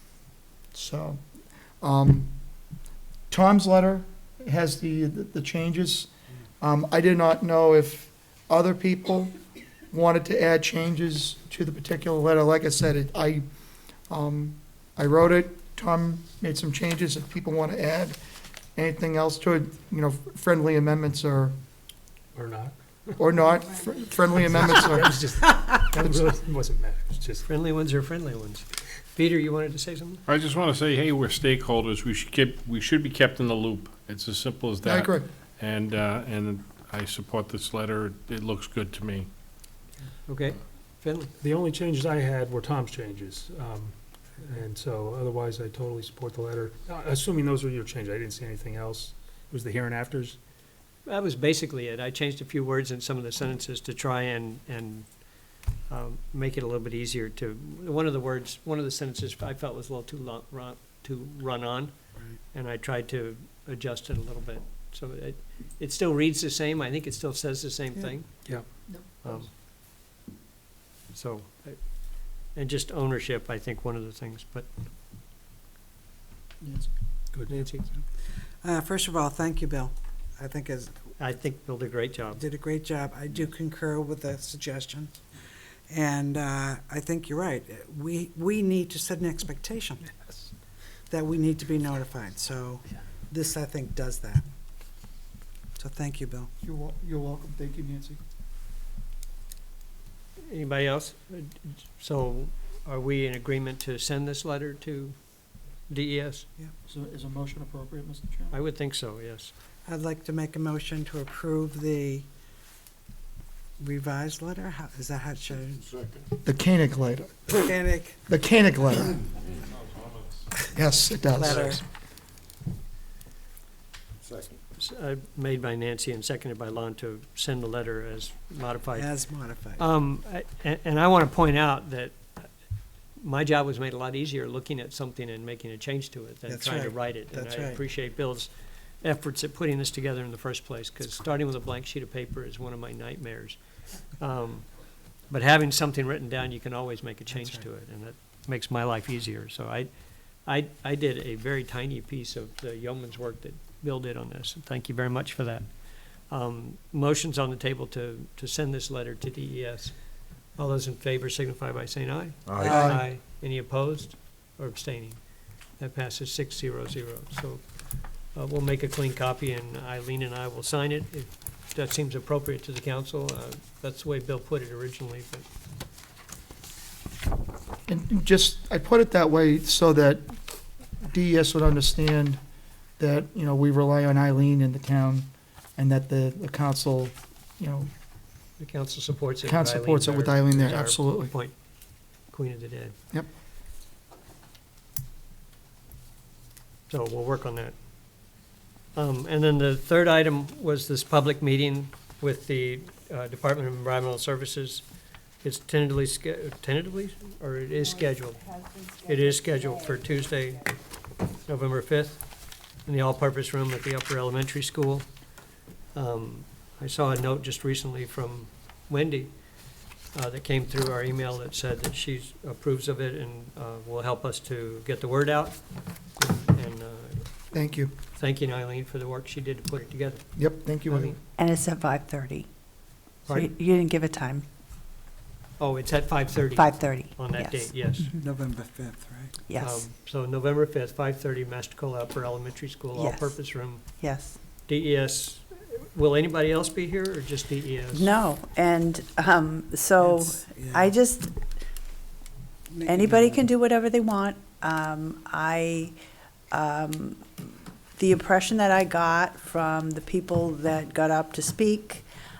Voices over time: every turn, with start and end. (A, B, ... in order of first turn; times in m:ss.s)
0:00.7-0:01.2 A
0:01.8-0:02.3 A
0:03.3-0:06.1 A
0:06.6-0:09.3 A
0:09.9-0:13.4 A
0:14.1-0:18.2 A
0:18.8-0:21.5 A
0:22.3-0:23.2 B
0:23.2-0:25.2 A
0:24.4-0:27.5 B
0:27.4-0:30.2 C
0:30.3-0:39.3 D
0:34.8-0:35.3 A
0:40.2-0:41.3 C
0:41.4-0:50.4 B
0:51.0-1:08.5 C
1:09.2-1:09.5 C
1:11.1-1:14.7 C
1:16.6-1:16.9 A
1:17.3-1:17.6 B
1:17.5-1:17.9 C
1:18.6-1:21.0 E
1:21.2-1:22.5 C
1:22.4-1:25.2 E
1:25.9-1:30.1 E
1:31.1-1:34.4 E
1:35.8-1:36.5 E
1:36.6-1:38.2 A
1:40.5-1:46.5 C
1:46.8-1:48.6 A
1:48.5-1:49.5 C
1:49.8-1:52.2 E
1:53.8-1:56.0 E
1:56.4-1:57.5 A
1:57.5-1:58.2 E
1:58.2-1:59.2 A
2:00.7-2:01.7 A
2:01.3-2:01.8 C
2:01.4-2:01.8 E
2:04.8-2:55.5 C
2:08.9-2:09.8 E
2:16.5-2:17.8 E
2:27.3-2:27.6 E
2:42.6-2:43.0 A
2:57.9-3:00.3 A
3:01.0-3:02.4 A
3:03.0-3:07.9 A
3:08.6-3:11.6 C
3:09.4-3:11.3 A
3:12.2-3:12.9 C
3:16.9-3:17.7 C
3:18.9-3:24.8 C
3:25.4-3:30.7 C
3:28.5-3:30.0 F
3:31.4-3:32.3 C
3:32.8-3:35.1 C
3:35.9-3:39.6 C
3:40.1-3:45.6 C
3:46.2-3:47.4 C
3:47.5-3:47.9 A
3:48.1-3:51.2 C
3:50.3-3:51.2 A
3:51.4-3:52.5 F
3:53.3-3:53.5 C
3:53.3-3:54.4 F
3:55.6-3:58.1 C
3:56.6-3:58.2 F
3:58.2-3:59.4 E
3:59.5-3:59.8 F
3:59.6-4:03.8 C
4:02.9-4:03.4 F
4:04.0-4:04.4 F
4:04.6-4:08.2 C
4:07.9-4:11.4 F
4:10.0-4:10.9 E
4:12.7-4:13.5 E
4:12.8-4:16.0 F
4:16.5-4:17.4 F
4:18.0-4:22.0 F